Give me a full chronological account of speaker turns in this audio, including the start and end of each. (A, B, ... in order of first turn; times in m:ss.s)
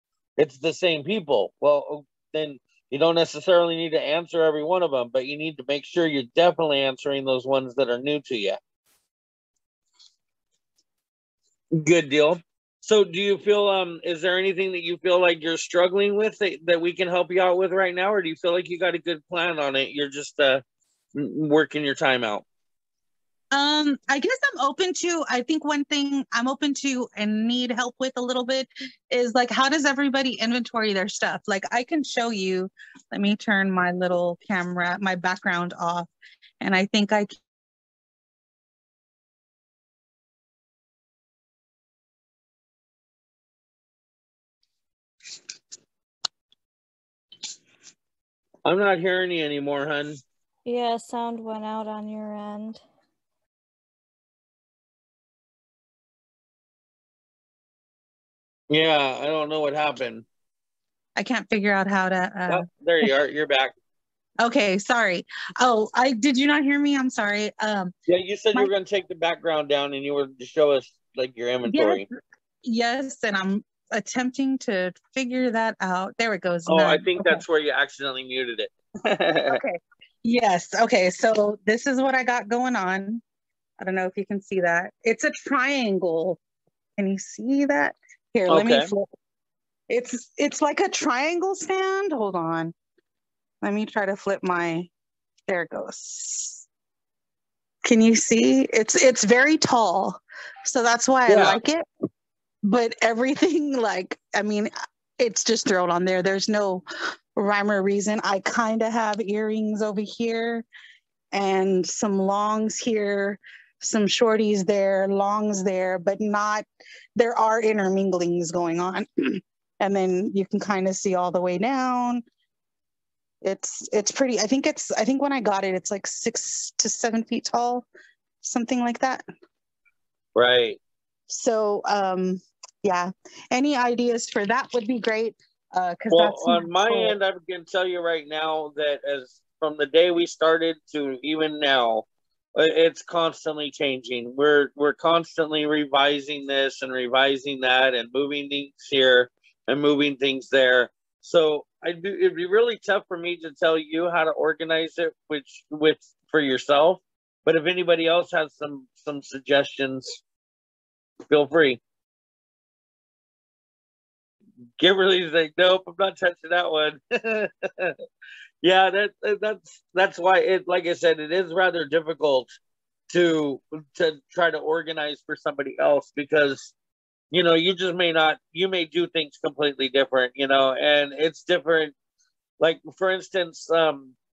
0:00.4-0:08.6 A
0:11.7-0:20.6 A
0:21.1-0:22.4 A
0:23.5-0:36.1 B
0:36.6-0:37.3 B
0:48.6-0:50.2 A
0:50.6-0:52.8 C
0:58.7-1:00.2 A
1:01.2-1:03.1 B
1:02.5-1:03.7 A
1:04.4-1:07.9 B
1:08.1-1:12.0 A
1:11.6-1:12.0 B
1:12.6-1:17.4 B
1:16.6-1:19.6 A
1:19.5-1:23.2 B
1:23.8-1:26.4 B
1:27.0-1:29.1 B
1:28.5-1:28.9 A
1:29.9-1:32.7 B
1:33.6-1:34.9 B
1:35.5-1:36.6 B
1:37.8-1:41.8 B
1:41.3-1:41.6 A
1:42.6-1:46.8 B
1:47.3-1:50.6 B
1:51.3-1:56.6 B
1:57.2-2:02.2 B
2:03.4-2:07.8 B
2:08.4-2:09.2 B
2:10.3-2:10.8 A
2:11.3-2:17.2 B
2:16.1-2:40.2 A
2:41.3-2:41.8 A
2:44.8-2:48.0 A
2:48.6-2:52.5 A
2:53.1-2:56.7 A
2:57.3-3:01.9 A
3:02.6-3:04.1 A